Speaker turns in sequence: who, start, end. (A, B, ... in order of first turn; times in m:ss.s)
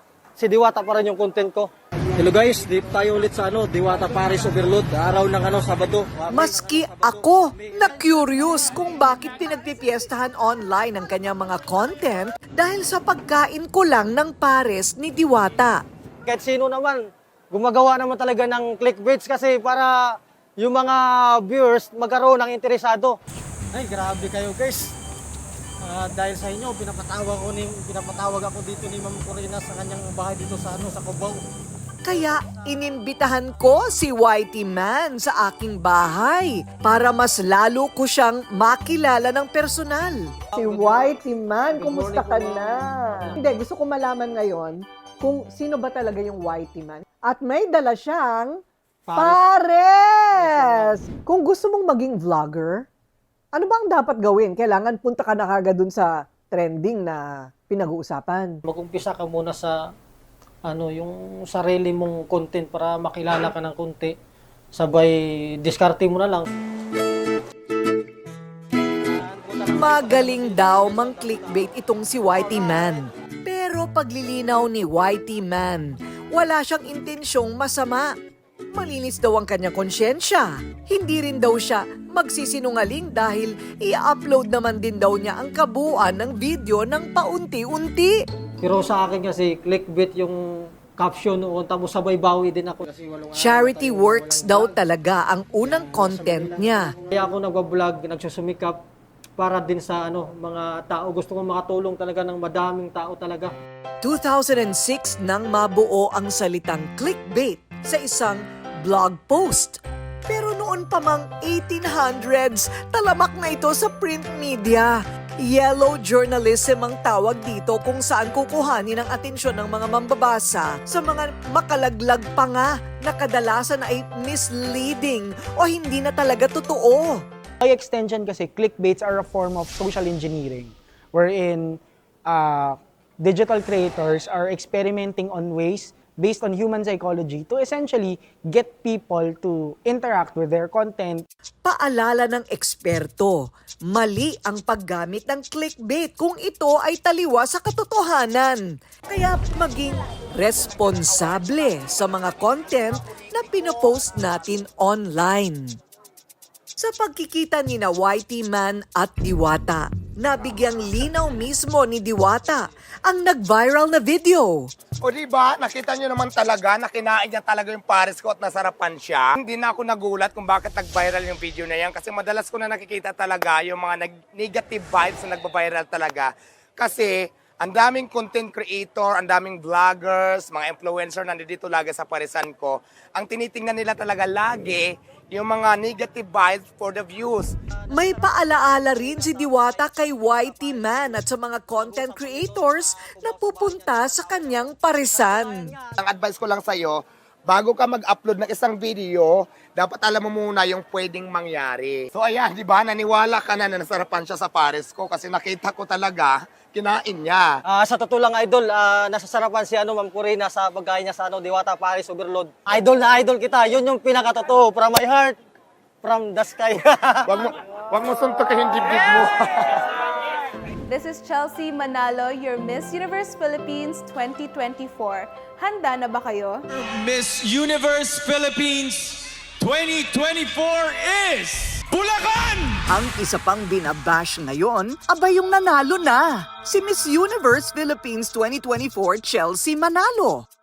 0:00.4-0:07.2 A
0:06.3-0:15.8 B
0:16.3-0:23.2 A
0:23.7-0:24.9 A
0:25.8-0:31.4 A
0:32.0-0:40.2 B
0:40.5-0:43.4 A
0:40.6-0:48.6 C
0:49.1-0:49.4 A
0:49.2-0:52.8 C
0:50.4-0:51.0 A
0:53.6-0:58.6 C
0:58.7-0:59.8 A
1:00.7-1:04.1 A
1:04.7-1:06.5 A
1:09.1-1:11.7 A
1:09.7-1:18.1 B
1:18.7-1:28.2 B
1:28.6-1:34.7 A
1:33.3-1:36.9 B
1:36.1-1:36.5 A
1:37.1-1:38.8 A
1:39.4-1:43.5 A
1:44.0-2:07.2 B
2:07.6-2:21.2 D
2:21.6-2:35.8 B
2:36.8-2:44.6 B
2:45.0-3:07.5 E
3:07.9-3:15.7 B
3:08.0-3:08.3 A
3:10.7-3:11.0 A
3:11.7-3:15.9 A
3:16.0-3:27.5 E
3:27.7-3:35.4 A
3:36.0-3:37.4 A
3:37.3-3:39.7 E
3:40.9-3:46.6 F
3:46.8-3:52.8 G
3:52.9-4:00.4 B